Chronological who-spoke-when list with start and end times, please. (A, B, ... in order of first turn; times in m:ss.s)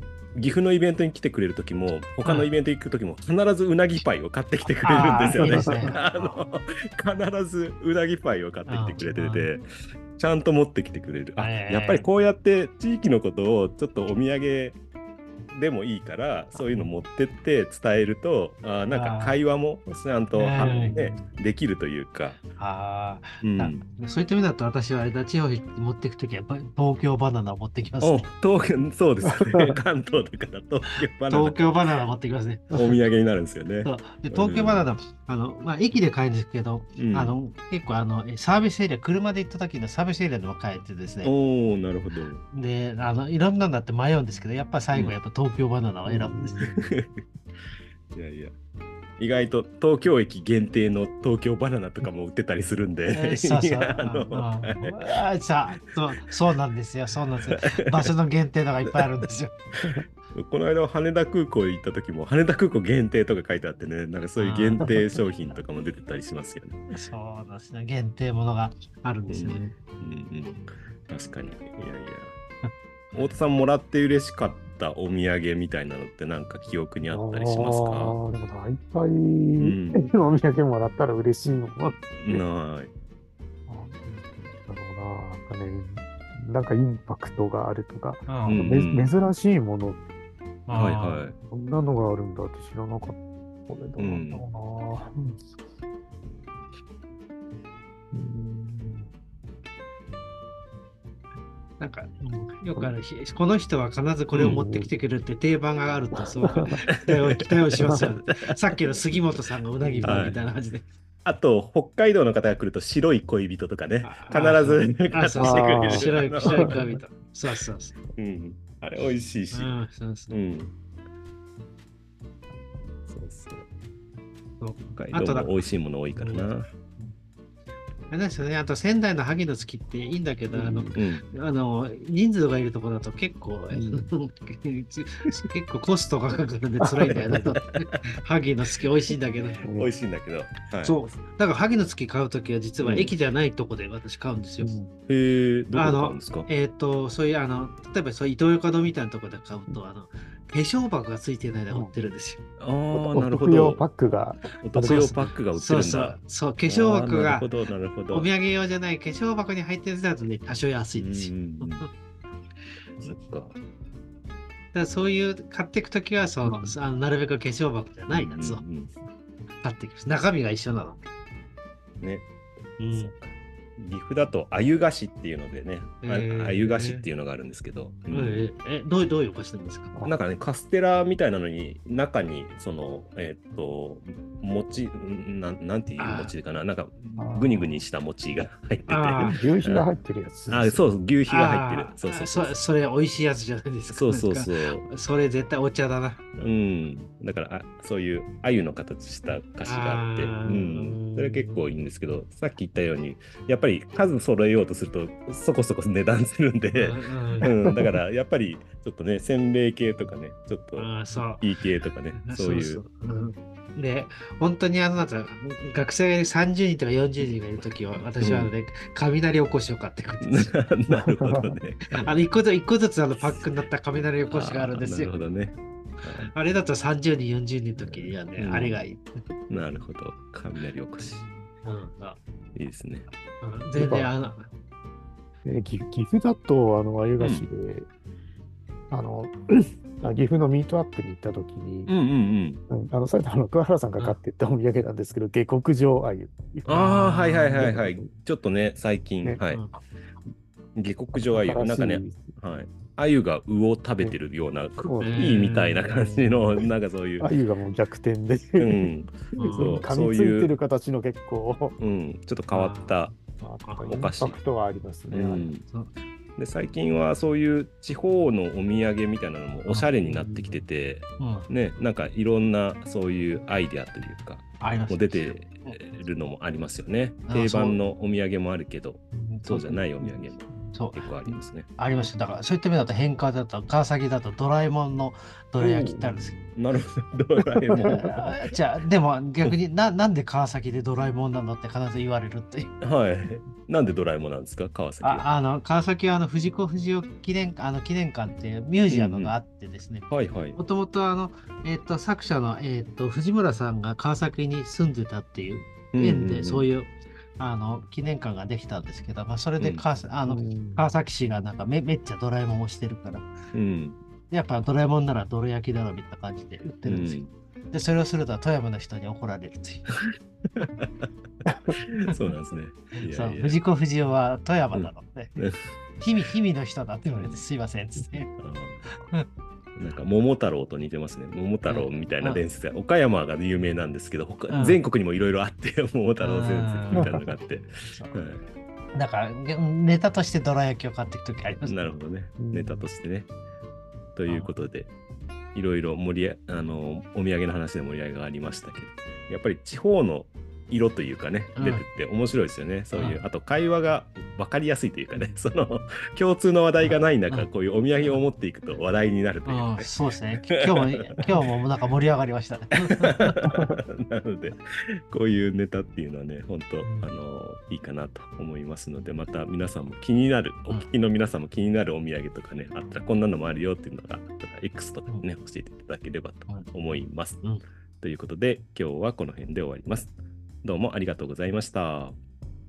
0:00.4-0:09.6 A
0:02.2-0:02.5 B
0:04.8-0:06.0 B
0:05.3-0:05.9 C
0:08.7-0:09.5 B
0:10.2-0:14.8 A
0:11.4-0:12.1 B
0:15.5-0:22.4 A
0:18.9-0:19.4 B
0:20.3-0:21.2 B
0:22.6-0:28.3 B
0:23.4-0:23.8 A
0:28.0-0:31.6 A
0:29.4-0:29.8 C
0:31.3-0:32.8 B
0:32.7-0:34.9 A
0:33.8-0:41.3 B
0:37.0-0:37.4 A
0:41.2-0:42.4 A
0:42.5-0:46.7 B
0:46.1-0:46.9 C
0:46.4-0:47.1 A
0:48.1-0:48.6 A
0:49.2-0:55.0 A
0:53.1-0:59.6 B
0:57.7-0:58.1 A
1:00.3-1:06.8 A
1:04.4-1:05.0 B
1:06.9-1:09.7 B
1:09.3-1:12.3 A
1:13.1-1:18.2 A
1:17.0-1:22.4 C
1:19.6-1:20.0 A
1:22.2-1:22.9 A
1:23.7-1:30.0 C
1:28.3-1:28.6 B
1:28.5-1:29.1 A
1:30.7-1:31.2 B
1:30.7-1:31.4 A
1:31.5-1:35.6 C
1:34.0-1:34.4 A
1:38.1-1:39.1 C
1:41.8-1:50.9 B
1:44.4-1:44.6 A
1:44.5-1:44.9 C
1:46.3-1:46.8 C
1:46.9-1:48.5 A
1:49.8-1:50.4 C
1:50.0-1:50.4 A
1:51.2-1:56.8 A
1:54.0-1:58.0 B
1:55.4-1:57.0 C
1:58.2-1:59.8 A
1:59.5-2:00.4 B
2:00.3-2:00.7 A
2:03.1-2:03.7 A
2:04.6-2:05.6 B
2:04.9-2:06.7 A
2:06.1-2:07.2 B
2:08.1-2:19.6 B
2:10.5-2:10.9 C
2:10.9-2:11.2 A
2:13.7-2:14.1 C
2:17.1-2:18.0 A
2:19.6-2:19.9 C
2:19.8-2:21.0 A
2:20.8-2:24.7 B
2:22.8-2:23.1 A
2:24.6-2:24.9 C
2:25.1-2:26.5 A
2:25.7-2:32.4 B
2:32.6-2:33.8 A
2:32.9-2:35.3 C
2:34.6-2:38.3 A
2:34.8-2:37.5 B
2:38.1-2:41.9 B
2:41.0-2:41.8 A
2:43.0-2:43.6 A
2:44.7-2:48.6 B
2:46.4-2:46.8 A
2:48.1-2:48.9 A
2:49.6-2:51.0 B
2:52.0-2:52.3 A
2:52.8-2:53.1 B
2:52.9-2:58.4 A
2:56.0-2:57.0 B
2:58.1-2:59.9 B
3:00.0-3:09.9 A
3:06.0-3:06.3 B
3:07.2-3:07.8 C
3:08.9-3:09.4 B
3:09.2-3:10.9 C
3:10.5-3:12.6 A
3:11.3-3:16.2 B
3:13.9-3:14.8 A
3:16.4-3:32.8 A
3:19.6-3:21.6 B
3:26.7-3:27.5 B
3:30.8-3:31.5 B
3:32.2-3:40.6 B
3:38.2-3:38.5 A
3:40.2-3:42.1 A
3:41.2-3:41.5 C
3:41.9-3:45.1 B
3:44.3-3:46.3 A
3:46.2-3:49.1 B
3:47.8-3:48.8 A
3:49.5-3:51.3 A
3:51.0-3:52.2 B
3:52.6-3:53.1 A
3:53.4-3:54.5 B
3:53.8-3:54.1 C
3:55.4-3:57.9 C
3:57.2-3:57.5 A
3:58.9-4:01.9 C
4:01.9-4:02.6 A
4:02.7-4:08.1 C
4:06.7-4:09.6 A
4:06.7-4:07.7 B
4:09.5-4:09.8 B
4:10.8-4:17.3 A
4:11.2-4:12.4 C
4:14.8-4:16.7 C
4:15.0-4:15.9 B
4:17.2-4:21.8 C
4:18.6-4:20.6 A
4:19.4-4:19.8 B
4:21.8-4:23.2 A
4:22.5-4:23.0 B
4:23.4-4:25.5 C
4:23.6-4:24.0 B
4:23.8-4:24.4 A
4:25.1-4:25.6 A
4:25.7-4:25.9 B
4:26.4-4:41.7 A
4:29.7-4:30.6 B
4:31.2-4:31.5 B
4:34.6-4:35.8 B
4:37.3-4:37.8 B
4:39.1-4:40.1 B
4:40.7-4:46.4 B
4:45.6-4:48.5 A
4:46.0-4:46.5 C
4:47.6-4:48.0 C
4:47.8-4:52.7 B
4:52.8-4:55.3 A
4:55.0-5:13.3 B
4:58.9-4:59.4 A
5:00.1-5:00.6 A
5:05.9-5:06.7 A
5:09.6-5:09.8 A
5:10.3-5:10.9 C
5:13.5-5:14.0 A
5:14.3-5:20.0 B
5:16.8-5:17.3 A
5:20.6-5:21.1 A
5:22.0-5:23.6 A
5:23.1-5:25.3 B
5:24.7-5:25.6 A
5:26.0-5:28.3 B
5:27.1-5:27.4 A
5:28.4-5:28.9 A
5:28.9-5:29.2 B
5:29.8-5:38.4 A
5:31.7-5:32.4 B
5:34.5-5:34.8 B
5:36.2-5:37.1 B
5:36.9-5:37.3 C
5:37.9-5:38.2 B
5:38.9-5:41.9 B
5:41.6-5:43.3 A
5:42.4-5:42.9 C
5:44.2-5:44.9 A
5:44.3-5:44.6 B
5:45.5-5:59.9 A
5:51.6-5:51.8 B
5:52.9-5:53.2 B
5:56.8-5:57.5 B
5:59.5-6:03.4 B
6:00.7-6:01.2 A
6:02.9-6:04.6 A
6:05.1-6:17.4 A
6:06.8-6:07.1 B
6:18.0-6:20.1 A
6:20.6-6:22.2 A